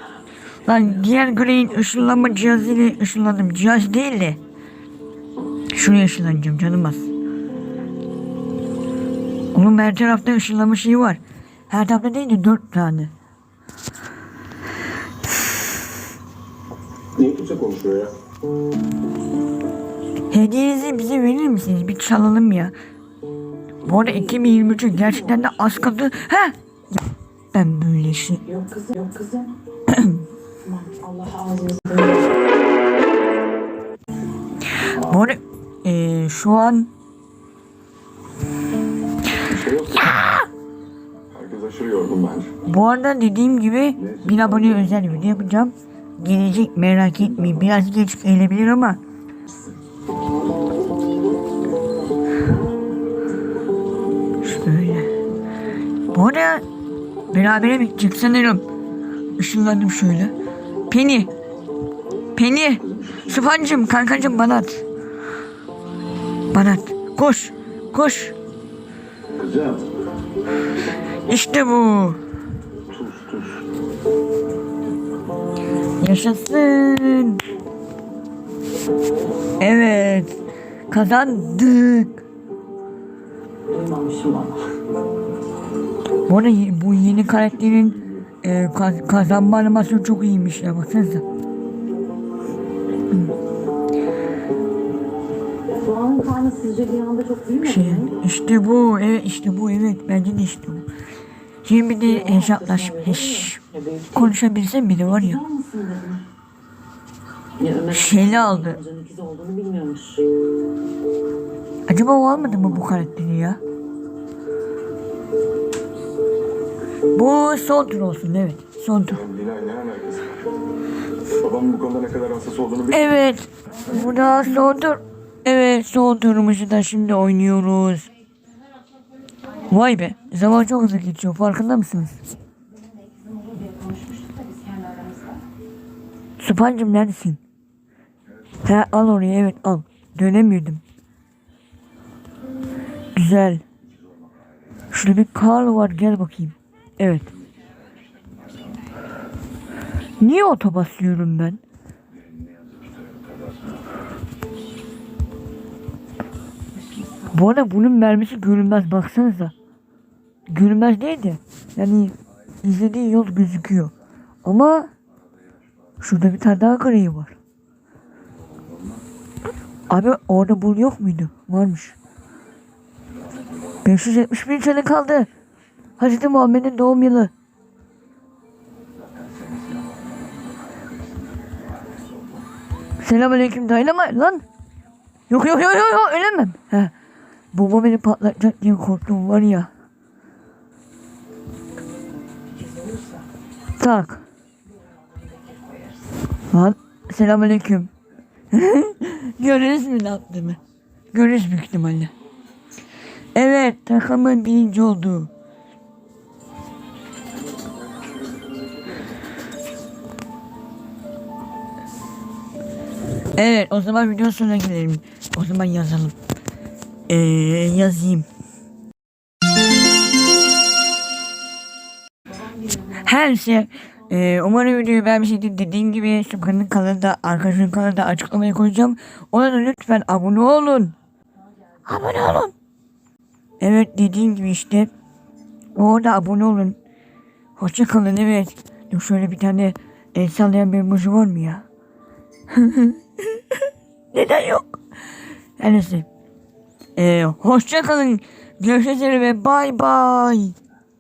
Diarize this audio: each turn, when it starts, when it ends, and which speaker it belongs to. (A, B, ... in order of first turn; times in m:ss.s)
0:00.6-0:04.4 A
0:01.8-0:02.6 B
0:05.7-0:07.1 A
0:09.5-0:13.1 A
0:17.2-0:18.1 C
0:20.3-0:22.8 A
0:23.8-0:27.0 A
0:23.9-0:26.0 B
0:27.5-0:28.4 A
0:28.4-0:29.6 B
0:29.9-0:30.2 A
0:30.6-0:32.4 B
0:34.8-0:36.9 A
0:39.6-0:40.0 C
0:41.3-0:42.5 C
0:42.6-0:49.0 A
0:54.4-0:55.1 A
0:56.1-0:56.6 A
0:57.3-0:58.7 A
0:59.4-1:00.3 A
1:00.9-1:01.3 A
1:02.4-1:04.8 A
1:06.5-1:08.4 A
1:09.4-1:09.8 C
1:11.3-1:12.2 A
1:13.0-1:13.6 C
1:16.0-1:17.4 A
1:19.6-1:20.4 A
1:20.9-1:22.2 A
1:23.7-1:24.8 B
1:26.3-1:31.2 A
1:35.7-1:38.2 B
1:37.6-1:40.9 A
1:41.6-1:43.6 A
1:42.0-1:44.4 B
1:44.1-1:45.4 A
1:45.1-1:46.3 B
1:47.6-1:50.3 B
1:47.9-1:48.8 A
1:51.9-1:53.6 A
1:57.1-1:59.3 A
1:59.3-2:00.4 C
2:01.4-2:02.9 C
2:02.9-2:08.1 A
2:09.6-2:12.2 A
2:13.0-2:15.4 B
2:16.4-2:17.4 A
2:18.6-2:20.8 A
2:23.2-2:23.6 A
2:24.9-2:27.3 A
2:30.2-2:31.6 A
2:37.3-2:39.5 A
2:40.5-2:43.9 A
2:44.4-2:44.9 A
2:46.0-2:47.4 A
2:49.9-2:52.0 A
2:53.8-2:55.3 A
2:56.0-2:57.3 A
3:03.0-3:04.4 A
3:05.3-3:06.9 A
3:07.5-3:09.7 A
3:13.8-3:14.2 A
3:16.5-3:17.9 A
3:18.5-3:20.6 A
3:21.1-3:22.1 A
3:23.4-3:25.3 A
3:33.4-3:36.2 A
3:37.1-3:38.3 A
3:42.9-3:51.0 A
3:51.9-3:52.5 A
3:53.6-3:54.9 A
3:55.8-3:56.8 A
3:57.6-4:01.6 A
4:02.5-4:04.8 A
4:05.6-4:06.1 A
4:07.0-4:10.6 A